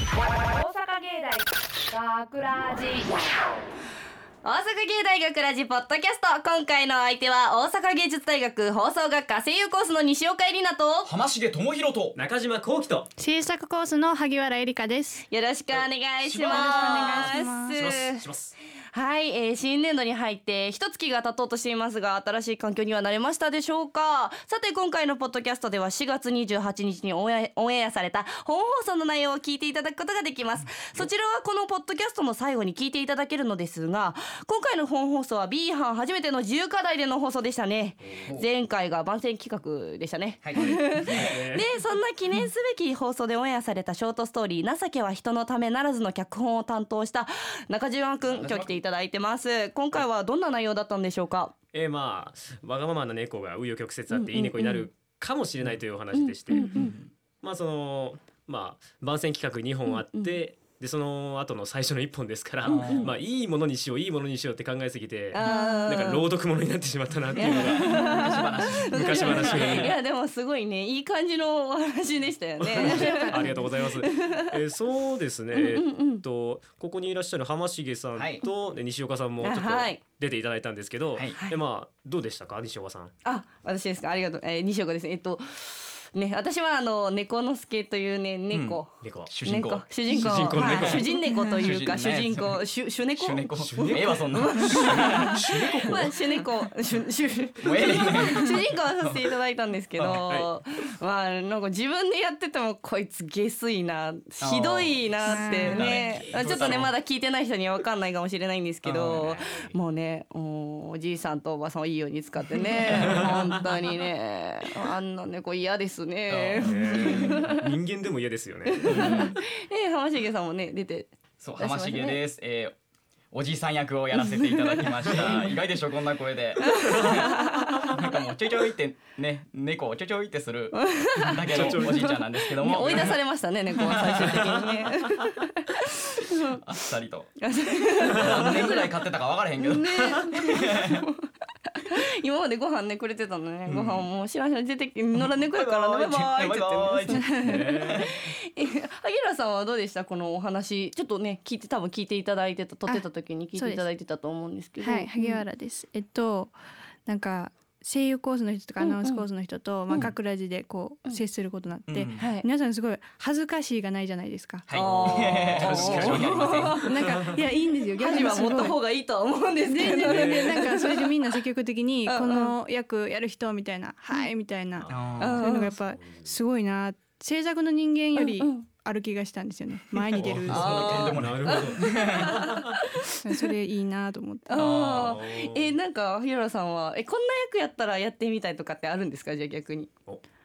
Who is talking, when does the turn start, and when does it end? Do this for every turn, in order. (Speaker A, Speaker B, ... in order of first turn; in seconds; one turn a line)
Speaker A: 0.4-3.2
Speaker B: 4.4-11.1
Speaker C: 11.0-12.2
Speaker D: 12.1-13.1
Speaker E: 13.2-15.2
Speaker B: 15.3-18.3
Speaker D: 15.7-18.5
Speaker C: 16.3-17.3
Speaker E: 16.4-17.8
Speaker B: 18.9-51.5
Speaker C: 30.7-31.1
Speaker D: 38.0-38.3
Speaker C: 40.4-41.4
Speaker D: 40.6-41.7
Speaker C: 48.2-48.7
Speaker D: 48.4-48.8
Speaker D: 51.7-56.7
Speaker B: 54.1-54.9
Speaker B: 56.1-56.9
Speaker E: 56.5-56.9
Speaker C: 56.7-57.1
Speaker D: 57.4-69.9
Speaker B: 59.9-60.4
Speaker C: 62.6-63.2
Speaker B: 62.8-63.1
Speaker B: 65.3-66.3
Speaker E: 65.4-65.9
Speaker B: 67.3-74.5
Speaker C: 67.4-70.0
Speaker D: 72.6-83.1
Speaker B: 75.5-76.2
Speaker C: 78.2-78.4
Speaker B: 79.4-80.0
Speaker B: 83.2-117.7
Speaker C: 88.5-92.6
Speaker D: 89.0-89.3
Speaker D: 90.1-91.1
Speaker E: 91.3-91.6
Speaker C: 93.2-95.5
Speaker D: 93.6-96.2
Speaker C: 97.6-99.3
Speaker C: 100.0-100.2
Speaker C: 104.4-106.9
Speaker E: 105.2-105.8
Speaker D: 105.6-106.9
Speaker C: 108.8-109.3
Speaker D: 109.1-109.7
Speaker D: 112.8-113.4
Speaker C: 113.0-113.3
Speaker C: 116.3-117.5
Speaker D: 116.6-119.3
Speaker B: 118.7-122.2
Speaker C: 118.8-119.4
Speaker C: 121.4-122.7
Speaker C: 123.3-133.2
Speaker B: 124.4-125.4
Speaker D: 125.0-125.6
Speaker B: 126.6-128.0
Speaker B: 130.7-136.6
Speaker D: 131.5-133.2
Speaker D: 133.7-135.3
Speaker C: 136.6-137.4
Speaker B: 137.4-138.9
Speaker C: 138.0-141.0
Speaker D: 138.2-138.7
Speaker B: 139.6-155.4
Speaker C: 143.7-144.1
Speaker C: 145.1-148.1
Speaker E: 147.3-147.6
Speaker D: 147.3-148.1
Speaker E: 152.9-153.9
Speaker E: 154.8-164.7
Speaker B: 158.8-159.2
Speaker C: 161.9-162.3
Speaker B: 162.2-162.4
Speaker C: 164.7-166.8
Speaker B: 164.7-167.0
Speaker D: 164.7-167.4
Speaker E: 166.8-168.8
Speaker B: 168.0-171.1
Speaker E: 169.6-181.1
Speaker D: 170.0-170.6
Speaker B: 172.1-172.6
Speaker D: 174.8-176.3
Speaker C: 174.9-175.5
Speaker B: 175.2-175.7
Speaker B: 178.2-178.7
Speaker C: 179.9-182.4
Speaker D: 180.1-182.8
Speaker B: 180.5-183.1
Speaker E: 183.2-184.7
Speaker B: 184.5-189.9
Speaker C: 184.6-185.2
Speaker D: 184.8-185.8